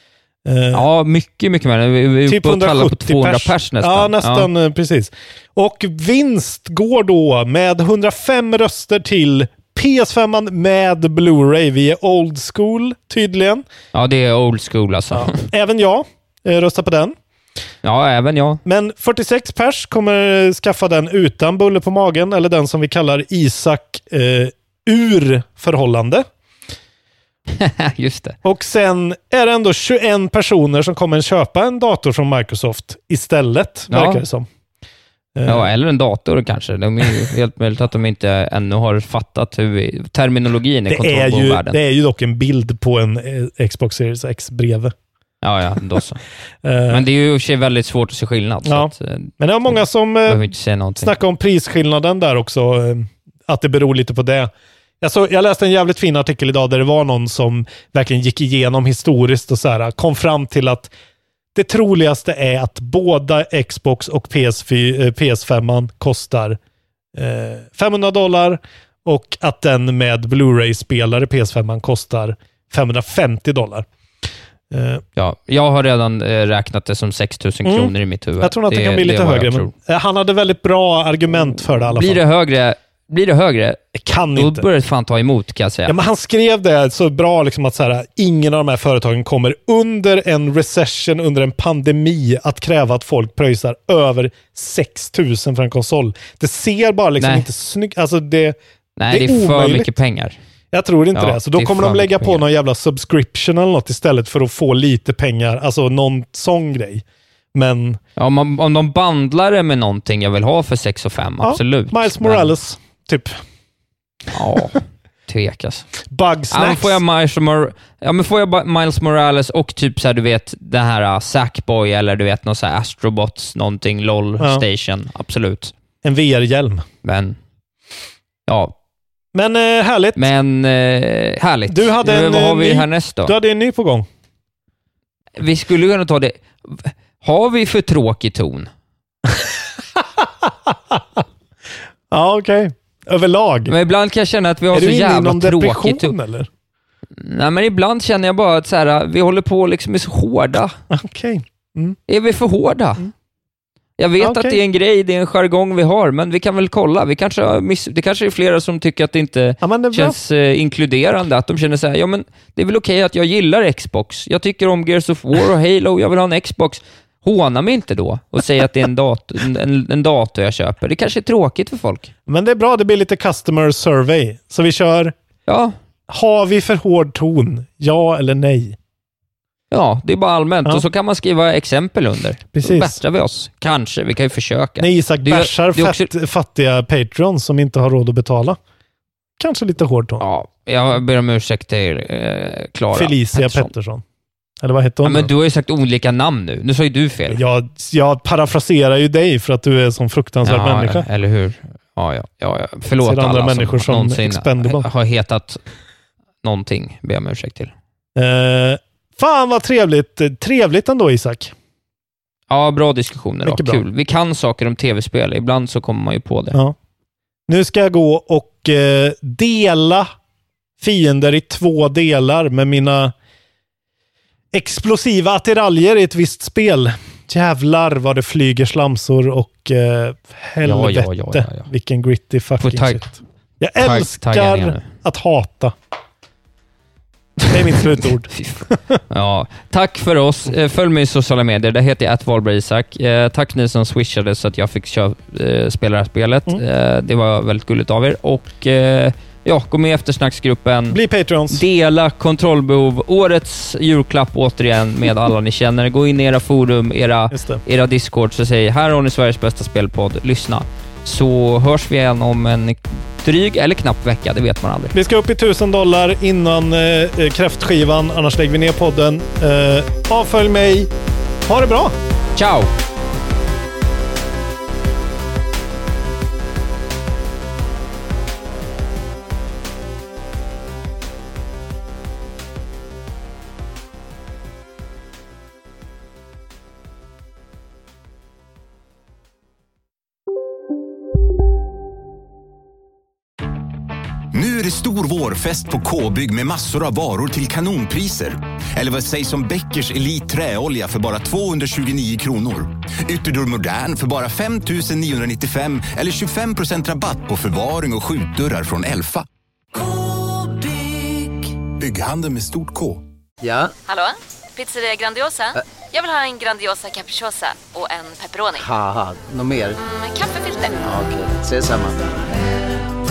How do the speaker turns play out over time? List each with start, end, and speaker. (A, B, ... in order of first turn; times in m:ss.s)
0:00.4-0:00.8 A
0:00.7-0:04.5 B
0:02.3-0:13.6 A
0:13.9-0:15.4 B
0:15.1-0:17.2 A
0:17.8-0:18.6 B
0:18.6-0:26.2 A
0:27.5-0:28.4 B
0:28.4-0:34.5 A
0:33.9-0:34.2 B
0:35.3-0:35.7 A
0:35.4-0:41.8 B
0:40.9-0:44.9 A
0:45.4-0:46.2 B
0:46.6-0:47.0 A
0:46.9-0:51.1 B
0:48.6-1:00.9 A
1:01.5-1:06.6 A
1:07.1-1:13.9 A
1:14.7-1:15.0 A
1:15.2-1:19.7 B
1:17.6-1:22.2 A
1:21.9-1:23.8 B
1:23.9-1:24.7 A
1:24.3-1:26.0 B
1:25.9-1:38.6 A
1:37.2-1:37.5 B
1:39.0-1:40.4 B
1:39.1-1:39.9 A
1:40.7-1:48.0 A
1:41.1-1:42.4 B
1:48.2-1:52.5 B
1:51.4-1:53.4 A
1:54.3-1:55.9 B
1:56.1-1:57.0 A
1:56.5-2:05.7 B
2:06.0-2:06.8 A
2:07.0-2:07.4 B
2:08.5-2:08.7 B
2:09.3-2:10.2 A
2:10.2-2:13.3 B
2:11.7-2:14.0 A
2:15.4-2:18.7 B
2:19.3-2:21.2 A
2:22.1-2:23.7 A
2:23.7-2:26.1 B
2:24.7-2:26.5 A
2:27.2-2:30.8 B
2:30.9-2:32.0 A
2:32.1-2:33.1 B
2:34.0-2:52.1 B
2:34.2-2:34.6 A
2:39.6-2:40.2 A
2:52.3-2:55.1 A
2:55.5-2:55.7 B
2:56.1-2:58.8 A
2:59.7-3:06.1 B
3:02.5-3:03.0 A
3:04.8-3:08.6 A
3:09.4-3:10.2 A
3:10.2-3:13.7 B
3:12.9-3:14.0 A
3:14.6-3:15.3 A
3:15.0-3:17.4 B
3:17.3-3:21.0 A
3:20.4-3:25.6 B
3:23.0-3:24.9 A
3:26.4-3:27.7 B
3:28.2-3:31.5 A
3:32.5-3:36.6 B
3:33.4-3:33.8 A
3:37.5-3:40.1 A
3:40.8-3:43.1 A
3:44.5-3:55.7 A
3:50.6-3:51.7 B
3:52.6-3:53.0 B
3:53.8-3:54.9 B
3:57.5-3:59.0 A
3:58.3-4:11.0 B
4:10.9-4:11.6 A
4:11.5-4:24.9 B
4:17.3-4:17.6 A
4:24.9-4:30.9 A
4:31.5-4:31.9 A
4:32.4-4:32.7 B
4:54.3-5:09.3 C
5:11.7-5:13.0 C
5:13.4-5:13.7 D
5:13.8-5:18.6 E
5:18.6-5:19.8 D
5:19.8-5:20.9 E
5:20.8-5:22.0 D